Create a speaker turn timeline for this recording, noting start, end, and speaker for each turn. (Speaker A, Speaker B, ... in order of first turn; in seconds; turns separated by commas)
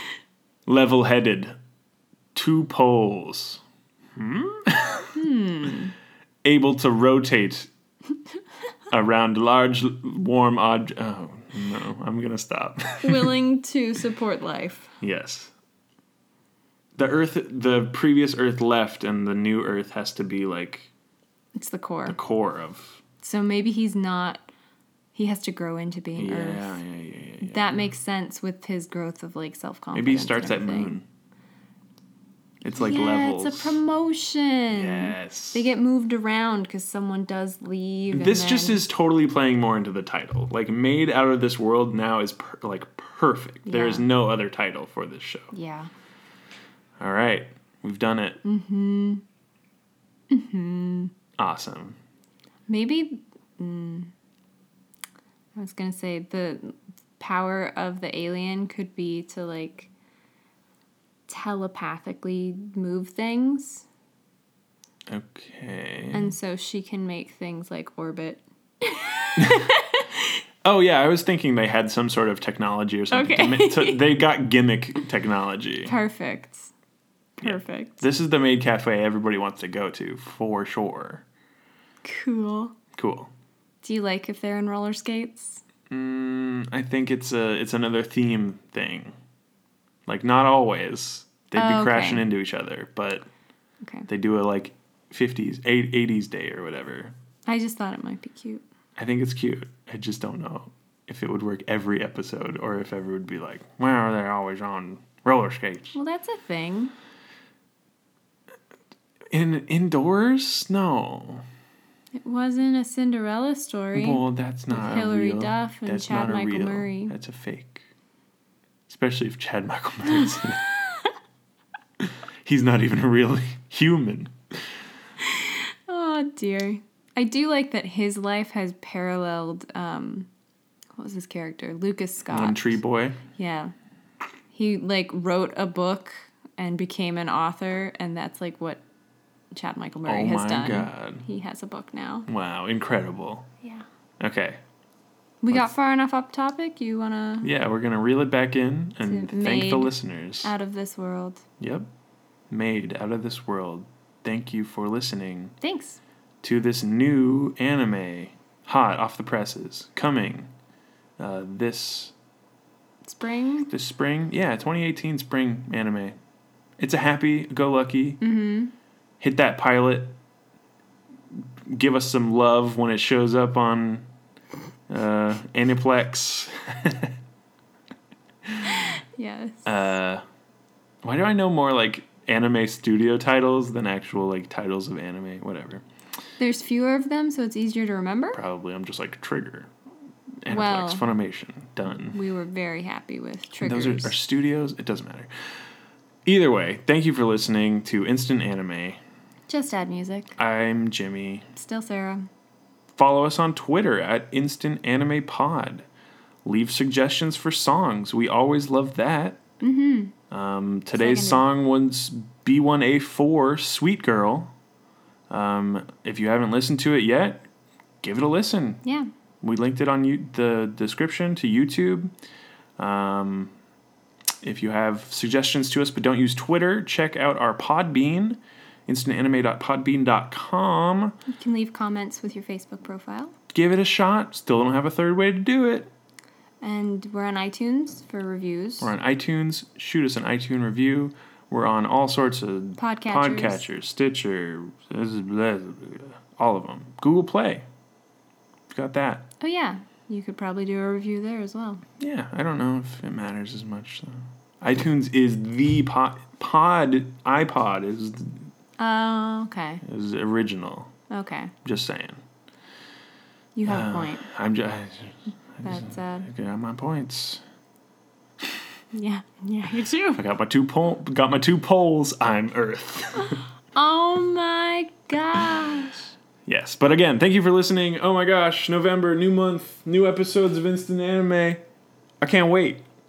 Speaker A: 0.7-1.6, Speaker A: 2.3-3.6, Speaker A: 4.2-5.2, Speaker B: 5.1-5.9, Speaker A: 6.4-7.7, Speaker A: 8.9-13.4, Speaker B: 13.0-14.9, Speaker A: 15.0-15.5, Speaker A: 17.0-20.9, Speaker B: 21.6-22.2, Speaker A: 22.1-23.0, Speaker B: 23.2-24.4, Speaker B: 25.1-26.8, Speaker A: 26.1-27.9, Speaker B: 27.4-31.0, Speaker A: 29.9-31.1, Speaker A: 32.6-33.8, Speaker B: 32.7-38.8, Speaker A: 34.7-35.7, Speaker A: 38.1-45.5, Speaker B: 43.6-44.0, Speaker B: 45.5-45.9, Speaker A: 47.0-48.4, Speaker B: 48.4-49.2, Speaker B: 50.3-51.1, Speaker A: 51.4-52.0, Speaker B: 52.7-54.1, Speaker B: 55.5-59.9, Speaker B: 61.3-63.9, Speaker A: 65.1-66.3, Speaker B: 66.1-70.4, Speaker A: 69.3-69.7, Speaker A: 70.6-75.9, Speaker B: 73.1-74.0, Speaker B: 75.8-76.7, Speaker B: 77.4-78.0, Speaker A: 77.4-81.2, Speaker B: 82.0-82.7, Speaker A: 83.0-83.3, Speaker B: 83.8-85.6, Speaker A: 85.9-89.1, Speaker A: 90.1-93.2, Speaker B: 91.5-92.2, Speaker B: 93.8-94.1, Speaker A: 94.1-97.1, Speaker B: 97.5-98.6, Speaker A: 99.0-106.0, Speaker B: 105.9-106.9, Speaker A: 109.3-111.4, Speaker B: 112.1-117.1, Speaker A: 113.9-117.8, Speaker A: 118.9-120.7, Speaker B: 120.1-121.1, Speaker A: 122.4-124.3, Speaker B: 125.2-130.3, Speaker B: 130.9-132.8, Speaker A: 132.3-133.2, Speaker B: 133.3-133.7, Speaker B: 134.5-138.8, Speaker B: 139.5-142.3, Speaker A: 140.0-141.2, Speaker A: 142.3-143.5, Speaker A: 144.2-144.6, Speaker B: 145.4-147.5, Speaker A: 147.4-150.5, Speaker B: 149.0-151.4, Speaker A: 151.6-151.9, Speaker A: 152.5-155.5, Speaker B: 155.6-156.0, Speaker A: 156.4-160.5, Speaker A: 161.2-162.1, Speaker B: 163.0-163.7, Speaker A: 163.7-166.2, Speaker A: 166.8-168.2, Speaker B: 168.2-168.7, Speaker A: 169.2-170.2, Speaker A: 171.6-174.1, Speaker A: 174.9-177.1, Speaker B: 178.6-179.9, Speaker A: 179.6-180.2, Speaker A: 181.0-185.8, Speaker B: 186.4-188.4, Speaker A: 188.3-189.7, Speaker A: 190.4-192.2, Speaker B: 190.5-191.0, Speaker B: 192.1-194.2, Speaker A: 193.6-195.3, Speaker A: 196.2-199.0, Speaker B: 199.5-200.3, Speaker A: 200.3-201.5, Speaker B: 201.6-202.3, Speaker A: 203.0-205.8, Speaker A: 206.4-209.4, Speaker B: 209.6-210.1, Speaker A: 210.3-214.5, Speaker B: 210.9-211.4, Speaker A: 215.3-217.4, Speaker A: 218.0-218.8, Speaker B: 218.8-219.1, Speaker A: 219.4-222.1, Speaker A: 222.8-223.5, Speaker A: 224.4-231.2, Speaker B: 231.3-233.3, Speaker A: 233.5-235.9, Speaker B: 236.6-238.9, Speaker A: 238.8-247.6, Speaker B: 242.8-243.6, Speaker A: 248.7-249.2, Speaker B: 249.4-251.8, Speaker A: 252.0-258.5, Speaker B: 258.8-259.8, Speaker A: 259.8-260.9, Speaker B: 261.1-261.5, Speaker A: 261.6-262.2, Speaker B: 263.5-264.3, Speaker A: 263.6-267.4, Speaker B: 265.6-266.3, Speaker B: 268.9-270.2, Speaker A: 270.1-273.4, Speaker B: 273.7-276.1, Speaker A: 276.4-281.6, Speaker A: 282.2-282.8